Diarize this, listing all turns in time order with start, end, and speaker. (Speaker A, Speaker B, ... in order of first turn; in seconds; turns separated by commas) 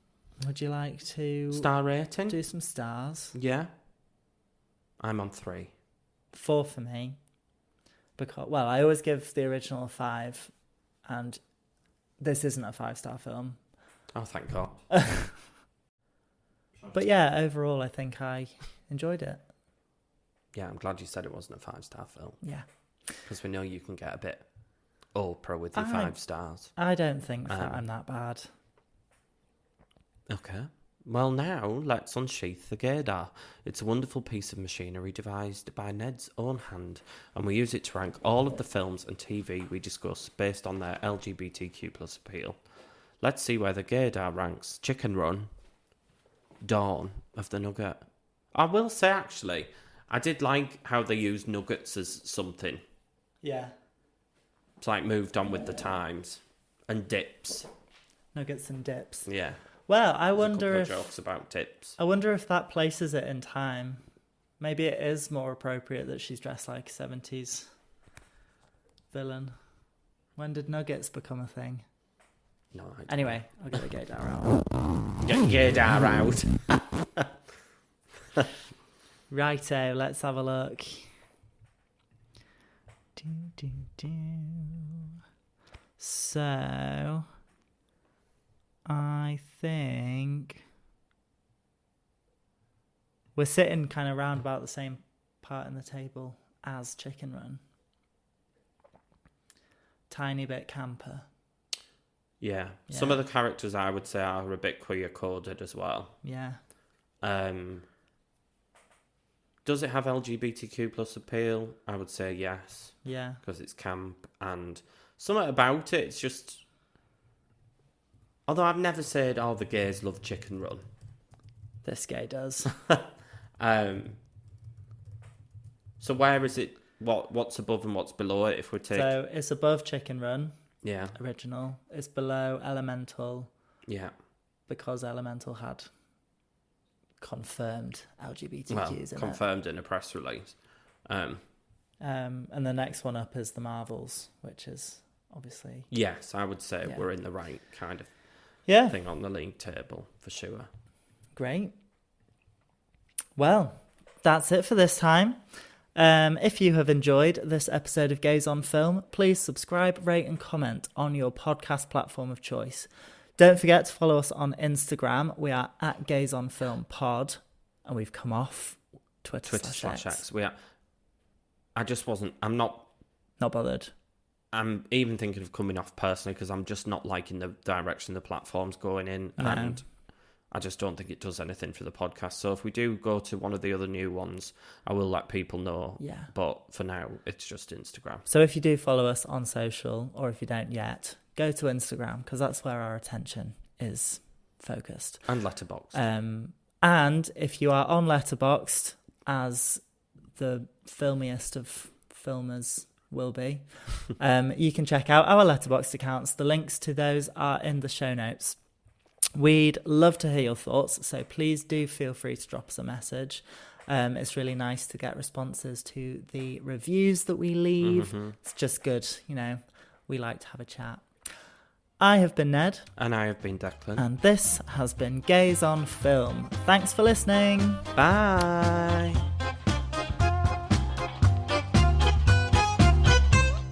Speaker A: 0.4-1.7, Speaker B: 1.5-2.4, Speaker A: 2.3-3.3, Speaker B: 3.3-3.7, Speaker B: 5.0-5.7, Speaker A: 6.3-7.2, Speaker A: 8.2-10.5, Speaker A: 11.1-11.4, Speaker A: 12.2-13.6, Speaker B: 14.2-14.8, Speaker A: 14.9-15.4, Speaker A: 16.9-19.4, Speaker B: 20.5-22.4, Speaker B: 23.2-24.4, Speaker B: 25.1-26.8, Speaker A: 25.8-26.1, Speaker A: 26.8-28.5, Speaker B: 27.5-27.8, Speaker B: 30.3-42.6, Speaker B: 43.2-45.5, Speaker B: 46.6-52.8, Speaker A: 53.4-53.7, Speaker B: 54.8-57.7, Speaker A: 58.3-59.3, Speaker B: 59.3-59.6, Speaker A: 59.9-61.1, Speaker B: 60.4-62.0, Speaker A: 62.0-64.0, Speaker A: 64.6-67.7, Speaker A: 69.1-69.6, Speaker A: 70.4-71.8, Speaker B: 72.7-73.4, Speaker A: 73.1-74.6, Speaker B: 75.2-77.3, Speaker A: 79.3-81.1, Speaker A: 83.2-84.9, Speaker A: 86.0-87.3, Speaker A: 88.9-90.6, Speaker A: 93.4-97.6, Speaker A: 100.1-101.3, Speaker B: 102.4-106.2, Speaker A: 102.9-103.2, Speaker A: 106.2-106.6, Speaker B: 107.2-107.8, Speaker B: 109.7-116.6, Speaker A: 113.0-113.4, Speaker B: 118.5-120.8, Speaker A: 121.8-122.7, Speaker B: 122.7-123.1, Speaker B: 123.6-124.2, Speaker B: 126.0-129.1, Speaker A: 128.9-130.5, Speaker B: 130.8-131.2, Speaker A: 131.2-133.5, Speaker B: 133.9-134.1, Speaker A: 134.7-135.9, Speaker A: 137.2-139.4, Speaker B: 138.7-140.6, Speaker B: 141.1-141.4, Speaker A: 142.0-145.9, Speaker B: 145.9-148.1, Speaker A: 148.7-149.0, Speaker B: 148.9-150.7, Speaker A: 151.3-151.7, Speaker A: 153.4-155.4, Speaker A: 155.9-170.2, Speaker B: 169.4-170.6, Speaker B: 171.8-172.9, Speaker A: 173.4-173.9, Speaker B: 174.5-179.9, Speaker A: 179.4-179.8, Speaker B: 180.5-188.3, Speaker A: 186.0-186.3, Speaker A: 188.3-195.2, Speaker B: 195.3-196.0, Speaker A: 195.9-199.8, Speaker A: 200.4-208.6, Speaker A: 209.3-221.1, Speaker B: 217.8-218.4, Speaker A: 222.0-222.9, Speaker B: 223.0-224.0, Speaker A: 224.0-227.8, Speaker B: 228.0-229.2